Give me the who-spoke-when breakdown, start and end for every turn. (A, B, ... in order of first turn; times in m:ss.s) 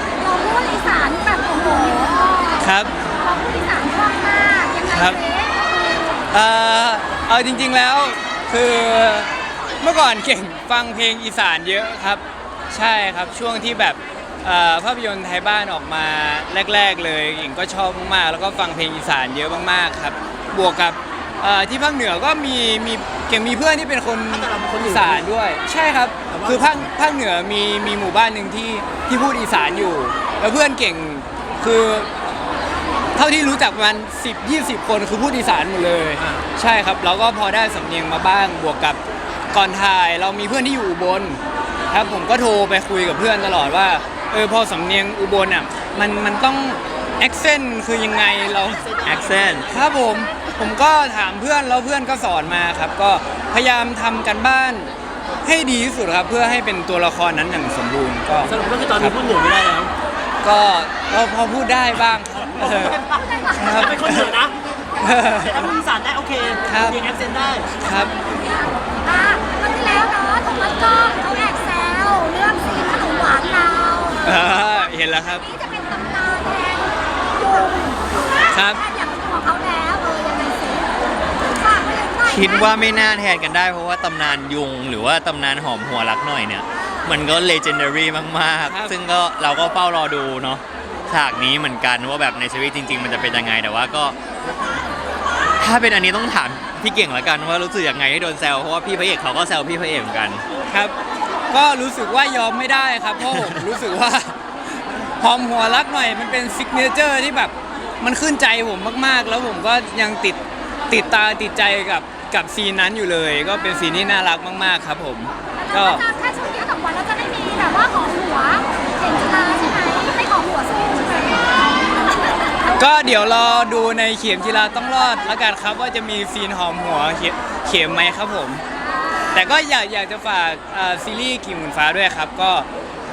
0:00.2-0:06.2 A
0:02.6-0:02.9 B
0:04.9-0:05.2 B
0:06.3-0:32.1 B
0:24.3-0:25.3 C
0:26.3-0:26.8 C
0:33.2-0:39.0 B
0:36.2-0:36.4 C
0:39.5-0:48.8 B
0:48.6-0:49.8 C
0:49.1-0:49.6 D
0:49.7-0:54.9 B
0:55.4-0:59.2 B
0:58.4-0:59.9 C
1:00.4-1:03.0 B
1:02.4-1:04.6 C
1:03.3-1:03.9 A
1:03.6-1:04.3 B
1:05.0-1:05.7 B
1:05.2-1:07.7 C
1:06.7-1:07.1 B
1:07.8-1:08.1 B
1:08.1-1:14.2 A
1:14.2-1:15.4 B
1:15.5-1:22.8 A
1:18.5-1:18.8 B
1:22.3-1:34.2 D
1:28.6-1:28.9 B
1:35.6-1:40.4 D
1:40.7-1:40.9 B
1:41.5-1:44.4 B
1:45.2-1:56.0 B
1:55.7-2:01.7 A
2:02.8-2:08.6 B
2:09.3-2:12.7 B